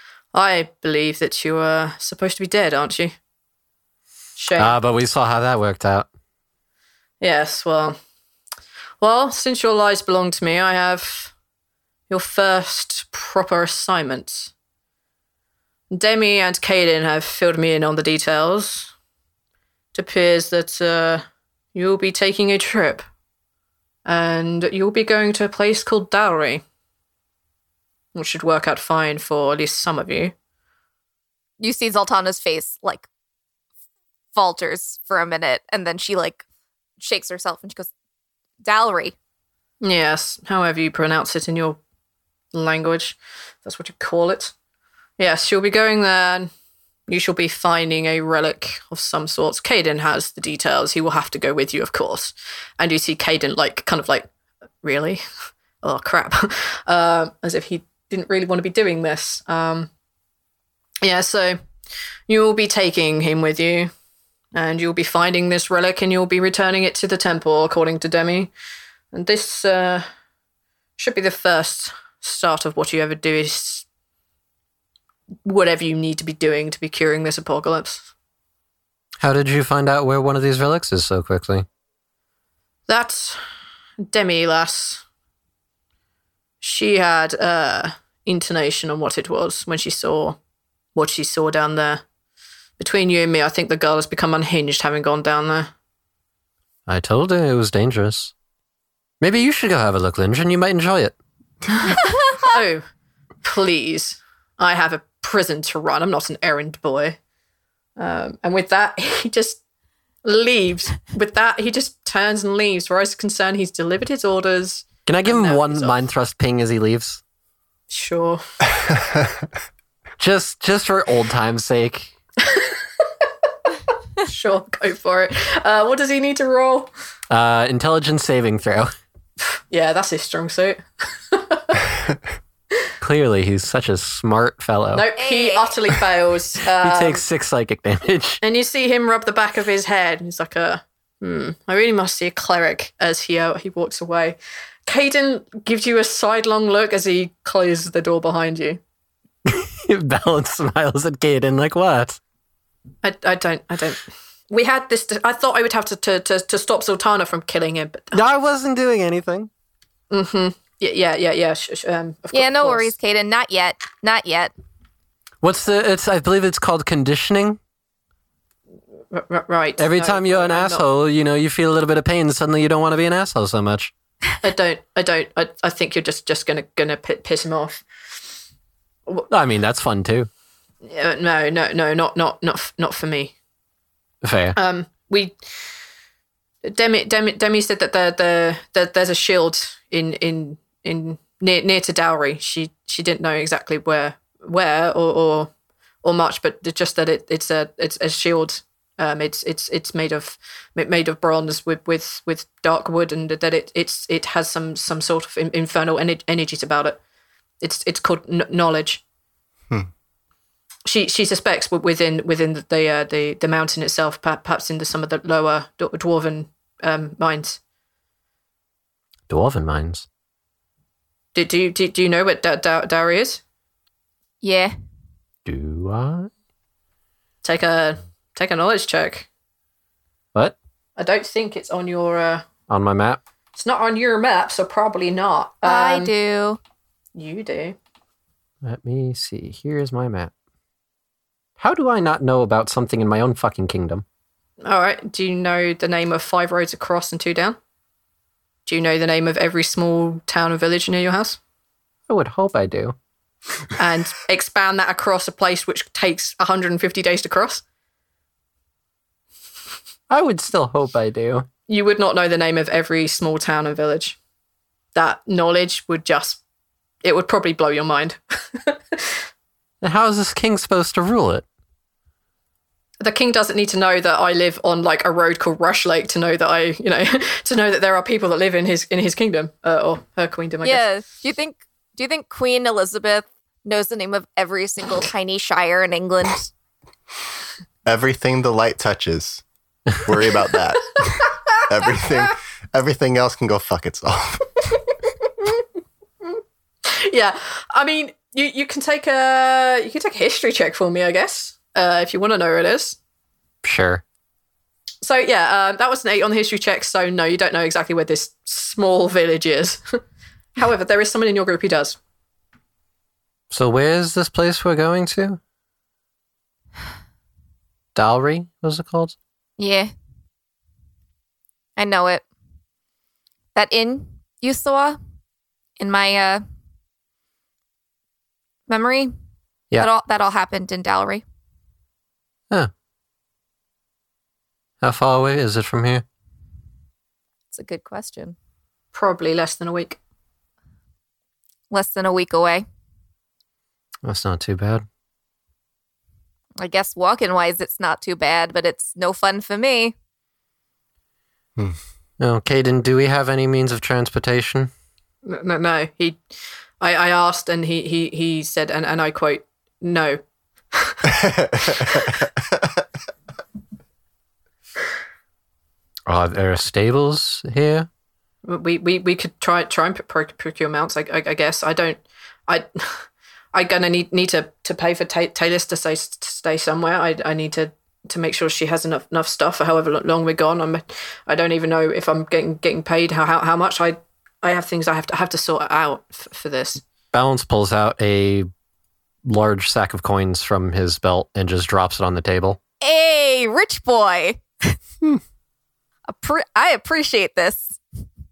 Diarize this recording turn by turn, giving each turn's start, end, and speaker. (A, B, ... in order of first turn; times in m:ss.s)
0:00.3-0:03.1 A
0:04.4-0:04.8 A
0:04.6-0:06.1 B
0:07.2-0:08.0 A
0:09.0-0:11.3 A
0:12.1-0:14.5 A
0:15.9-0:18.9 A
0:19.9-0:23.0 A
0:24.0-0:26.6 A
0:28.1-0:30.3 A
0:31.6-0:33.1 C
0:34.3-0:36.4 C
0:37.0-0:37.9 C
0:38.6-0:39.1 C
0:39.8-0:41.8 A
0:42.5-0:44.5 A
0:45.2-0:46.5 A
0:47.1-0:54.3 A
0:54.8-0:55.2 A
0:55.8-0:59.9 A
1:01.0-1:01.6 A
1:02.3-1:03.9 A
1:04.5-1:08.5 A
1:09.1-1:10.1 A
1:11.0-1:13.8 A
1:15.4-1:18.1 A
1:19.2-1:21.6 B
1:22.9-1:23.4 A
1:24.1-1:25.0 A
1:26.6-1:30.4 A
1:30.9-1:32.0 A
1:32.8-1:35.7 A
1:36.9-1:38.3 B
1:39.2-1:41.2 B
1:41.8-1:42.8 A
1:42.0-1:42.5 C
1:43.4-1:47.2 A
1:48.0-1:49.6 A
1:50.2-1:56.0 A
1:55.0-1:57.2 B
1:57.9-1:58.4 A
2:00.2-2:02.1 B
2:02.4-2:02.8 A
2:04.2-2:06.9 A
2:07.3-2:08.9 B
2:09.4-2:11.8 A
2:13.0-2:15.0 B
2:14.9-2:17.2 A
2:15.2-2:15.8 C
2:16.8-2:18.4 B
2:18.4-2:28.8 A
2:29.4-2:32.2 B
2:33.0-2:38.2 A
2:38.1-2:39.5 B
2:40.1-2:42.9 A
2:42.3-2:44.5 C
2:45.4-2:47.6 B
2:49.1-2:50.8 A
2:49.8-2:53.9 B
2:54.4-2:57.8 A
2:59.3-3:00.3 B
3:00.8-3:03.3 A
3:04.2-3:04.6 B
3:04.6-3:05.4 A
3:06.6-3:15.5 A
3:16.0-3:27.0 A
3:27.6-3:29.0 A
3:30.8-3:37.6 A
3:39.3-3:40.1 B
3:41.3-3:43.4 A
3:44.4-3:44.7 C
3:45.4-3:46.3 B
3:47.4-3:49.3 A
3:51.0-3:52.4 A
3:52.7-3:53.2 B
3:53.6-3:56.1 A
3:55.6-3:56.6 C
3:57.1-3:57.8 A
3:58.6-4:00.3 B
4:01.6-4:04.0 B
4:04.6-4:07.6 A
4:08.6-4:11.4 A
4:12.1-4:13.0 B
4:13.8-4:17.6 A
4:20.1-4:21.5 B
4:21.7-4:24.2 A
4:24.9-4:26.4 A
4:27.0-4:29.2 A
4:29.8-4:31.4 B
4:33.0-4:40.8 A
4:40.6-4:46.5 C
4:47.8-4:49.4 D
4:50.0-4:54.6 D
4:51.1-4:51.6 A
4:55.1-4:55.6 A
4:56.2-5:03.0 A
5:03.6-5:04.0 B
5:05.0-5:10.0 A
5:10.6-5:12.0 A
5:13.5-5:15.4 B
5:17.9-5:19.2 B
5:19.6-5:19.9 C
5:21.8-5:22.2 C
5:23.5-5:25.0 C
5:25.8-5:26.4 C
5:28.7-5:29.1 C
5:29.8-5:31.2 C
5:34.8-5:36.0 B
5:37.5-5:38.4 C
5:38.9-5:40.0 A
5:41.7-5:42.6 C
5:44.0-5:44.8 B
5:46.6-5:49.9 C
5:52.2-5:54.7 B
5:55.2-5:56.2 A
5:56.8-6:00.2 A
6:00.7-6:01.1 A
6:01.3-6:01.7 D
6:01.7-6:02.2 A
6:06.1-6:07.9 B
6:08.4-6:26.8 A
6:27.1-6:28.5 B
6:29.2-6:32.6 B
6:32.8-6:34.8 C
6:36.1-6:37.8 C